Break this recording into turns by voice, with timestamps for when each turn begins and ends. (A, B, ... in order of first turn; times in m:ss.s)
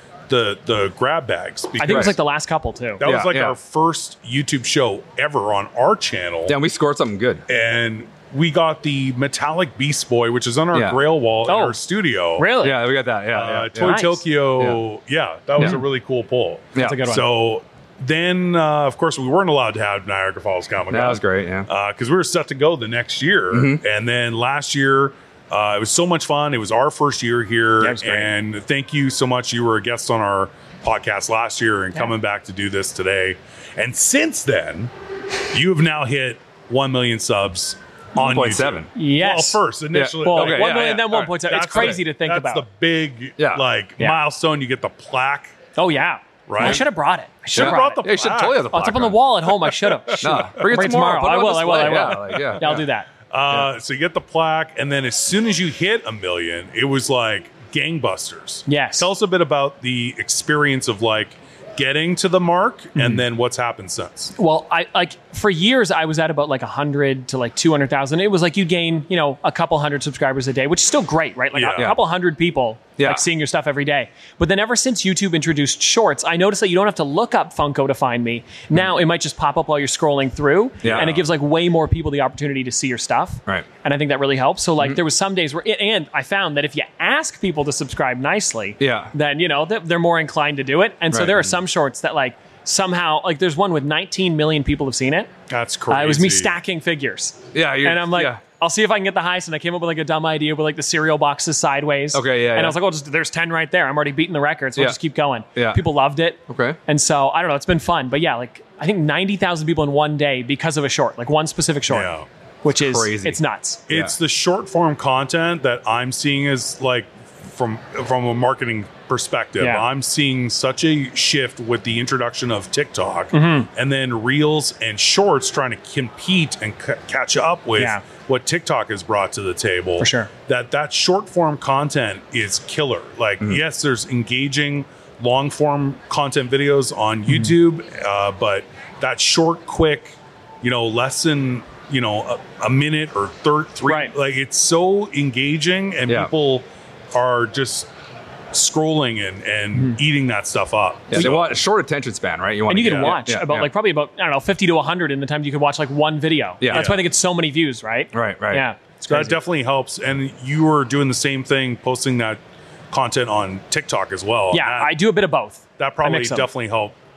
0:00.3-0:02.2 A
0:01.8-0:03.0 B
0:01.8-0:02.2 C
0:03.0-0:06.6 A
0:03.0-0:03.6 C
0:06.5-0:07.4 C
0:07.5-0:12.5 A
0:10.7-0:11.0 C
0:11.5-0:11.8 B
0:12.4-0:12.8 B
0:12.6-0:14.0 C
0:13.3-0:34.9 A
0:13.8-0:14.2 B
0:16.8-0:17.3 B
0:20.9-0:21.7 C
0:23.5-0:23.8 C
0:27.8-0:28.3 B
0:35.5-0:45.5 A
0:38.2-0:38.9 C
0:39.0-0:39.6 B
0:39.9-0:41.2 C
0:40.2-0:42.6 B
0:43.4-0:43.6 C
0:45.8-0:48.2 B
0:46.5-0:46.8 A
0:47.5-0:48.7 A
0:47.6-0:49.2 C
0:48.7-0:53.1 B
0:49.5-0:50.6 A
0:50.2-0:52.9 C
0:52.0-0:52.8 A
0:53.3-1:04.3 A
0:58.7-0:59.1 B
1:03.0-1:03.2 B
1:04.4-1:35.3 B
1:11.5-1:11.9 A
1:13.0-1:13.2 C
1:20.8-1:21.1 C
1:20.8-1:21.2 A
1:28.8-1:29.1 C
1:31.1-1:31.4 C
1:35.5-1:36.6 A
1:35.9-1:53.8 B
1:37.5-1:38.4 C
1:42.1-1:42.8 C
1:45.6-1:45.8 C
1:46.5-1:46.8 C
1:51.9-1:52.3 A
1:52.7-1:53.4 C
1:53.9-2:27.9 A
1:59.6-1:59.9 B
2:03.3-2:03.7 B
2:07.8-2:08.0 B
2:10.0-2:10.3 B
2:23.8-2:24.1 B
2:28.5-2:31.6 A
2:31.1-2:33.7 C
2:32.7-2:39.4 B
2:32.8-2:33.2 A
2:36.6-2:36.9 C
2:36.7-2:37.0 A
2:38.1-2:38.7 C
2:39.1-2:42.4 A
2:42.9-2:45.0 A
2:44.5-2:46.5 B
2:45.8-2:47.0 A